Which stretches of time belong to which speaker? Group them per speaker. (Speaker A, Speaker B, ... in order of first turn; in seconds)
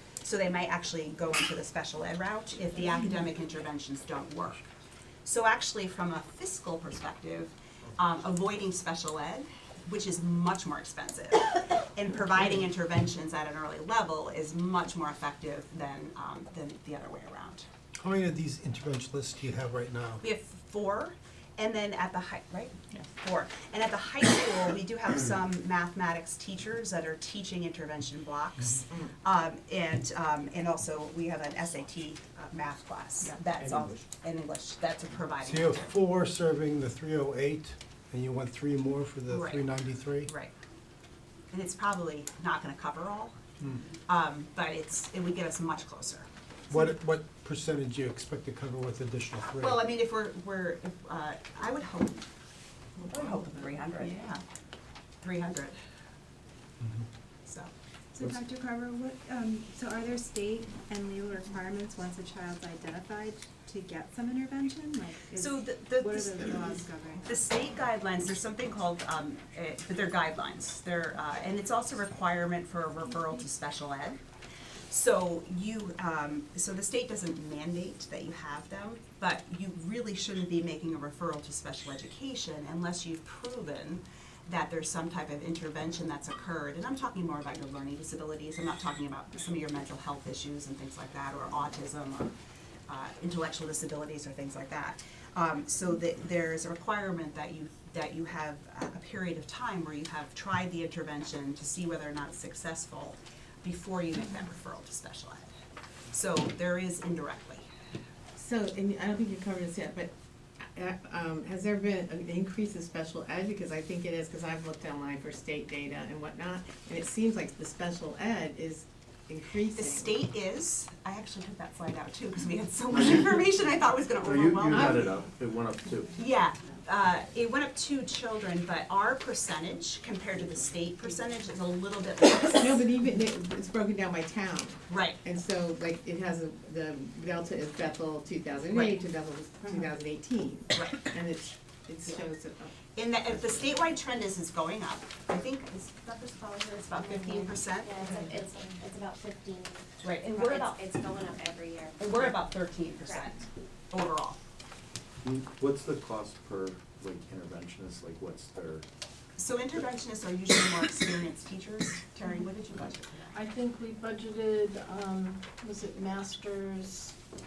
Speaker A: 0.2-4.6, 5.2-17.6, 20.2-35.9, 39.3-39.7, 40.2-40.5, 41.5-43.4, 44.1-46.3, 49.6-52.2, 53.1-54.3, 55.2-55.8, 57.5-57.7, 65.4-74.2, 74.9-92.3, 92.9-105.5, 106.1-107.7, 119.7-125.2, 126.2-132.8, 134.9-135.2, 138.7-139.0, 140.7-141.1, 142.9-148.4, 150.0-150.8, 152.0-154.4, 159.4-163.4
Speaker B: 18.0-20.2, 33.6-34.0, 35.4-40.3, 46.7-49.8
Speaker C: 53.2-53.5, 108.3-120.2, 124.7-125.1, 132.5-143.7
Speaker D: 58.1-67.3
Speaker E: 124.2-126.2, 155.2-158.8
Speaker F: 147.0-152.2
Speaker G: 163.3-167.2